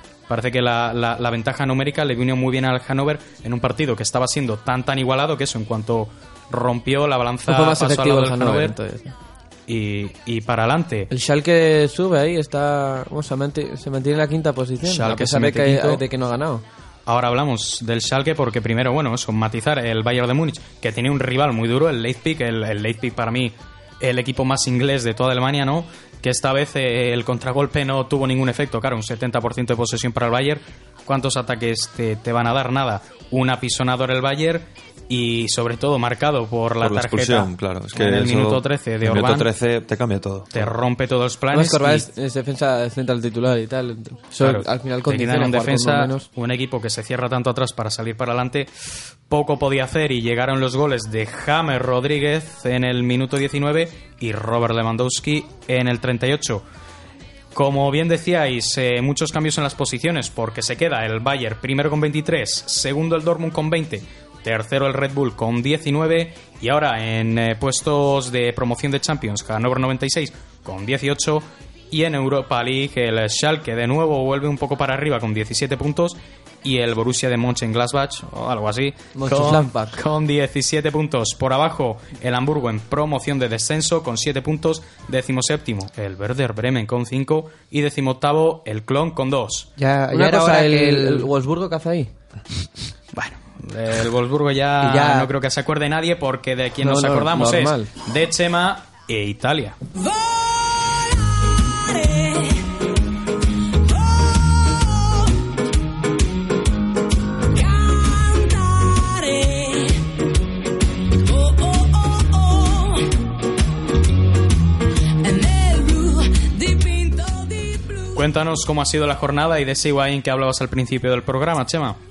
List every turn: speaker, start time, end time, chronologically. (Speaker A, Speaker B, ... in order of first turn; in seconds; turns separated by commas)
Speaker A: 0.3-8.8, Speaker B: 7.5-9.1, Speaker A: 9.7-11.1, Speaker B: 11.1-16.6, Speaker A: 14.8-16.0, Speaker A: 17.1-39.5, Speaker C: 36.8-40.7, Speaker A: 40.5-42.1, Speaker B: 41.5-46.3, Speaker A: 44.4-56.6, Speaker A: 57.5-89.7, Speaker B: 79.2-80.0, Speaker D: 89.8-91.3, Speaker B: 90.1-92.1, Speaker A: 93.1-99.8, Speaker D: 94.8-95.3, Speaker B: 96.8-97.9, Speaker E: 100.0-102.6, Speaker E: 103.9-105.1, Speaker E: 107.5-110.0, Speaker E: 111.2-113.0, Speaker E: 115.2-118.2, Speaker A: 118.2-122.0